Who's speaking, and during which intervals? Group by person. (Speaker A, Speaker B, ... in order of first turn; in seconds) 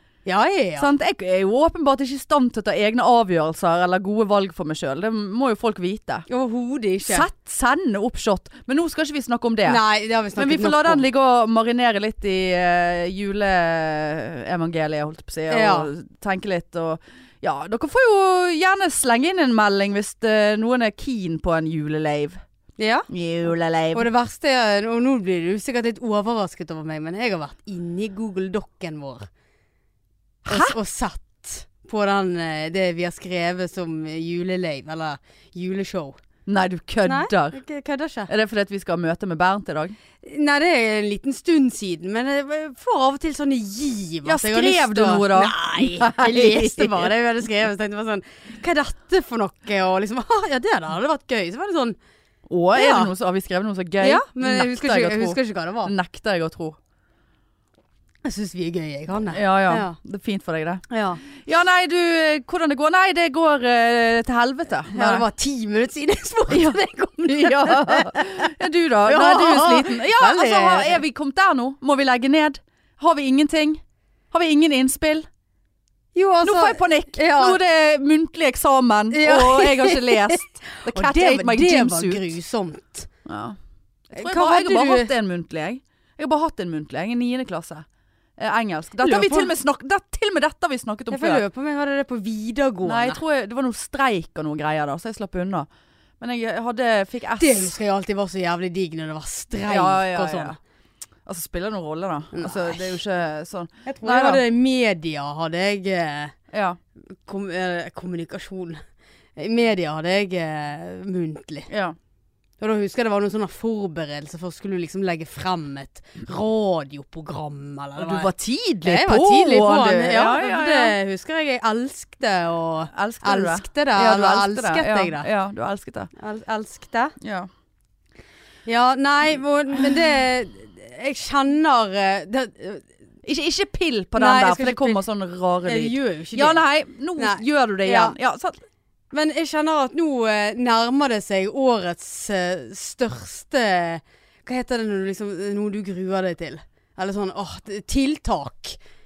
Speaker A: 0.2-0.9, 6.3-7.3, 9.7-11.0, 15.5-15.9, 22.8-23.1, 23.9-29.3, 30.4-36.2, 37.0-38.3, 40.2-52.0, 52.7-53.1, 54.0-55.9, 58.2-60.0, 60.9-61.2, 64.9-68.5, 69.0-71.0, 76.1-77.6, 79.1-83.1, 84.1-85.1, 89.0-89.5, 91.1-93.2, 97.4-100.6, 102.3-102.9, 103.8-106.3, 107.2-108.8, 109.4-111.7, 112.6-118.3, 118.8-125.3, 126.2-127.2, 128.7-132.8, 134.2-135.0, 135.6-136.6, 137.2-138.1, 139.1-148.8
Speaker B: 0.8-6.2, 7.0-9.8, 10.3-22.4, 23.1-24.1, 30.4-30.8, 36.5-37.6, 38.3-40.0, 44.2-47.1, 52.5-56.8, 59.3-65.3, 66.5-75.2, 76.4-82.2, 83.2-83.6, 84.1-87.8, 88.4-91.4, 92.8-95.7, 96.2-97.7, 99.7-100.6, 101.2-104.4, 106.5-106.8, 111.7-112.0, 118.0-120.9, 122.9-126.1, 127.2-127.5, 133.2-138.6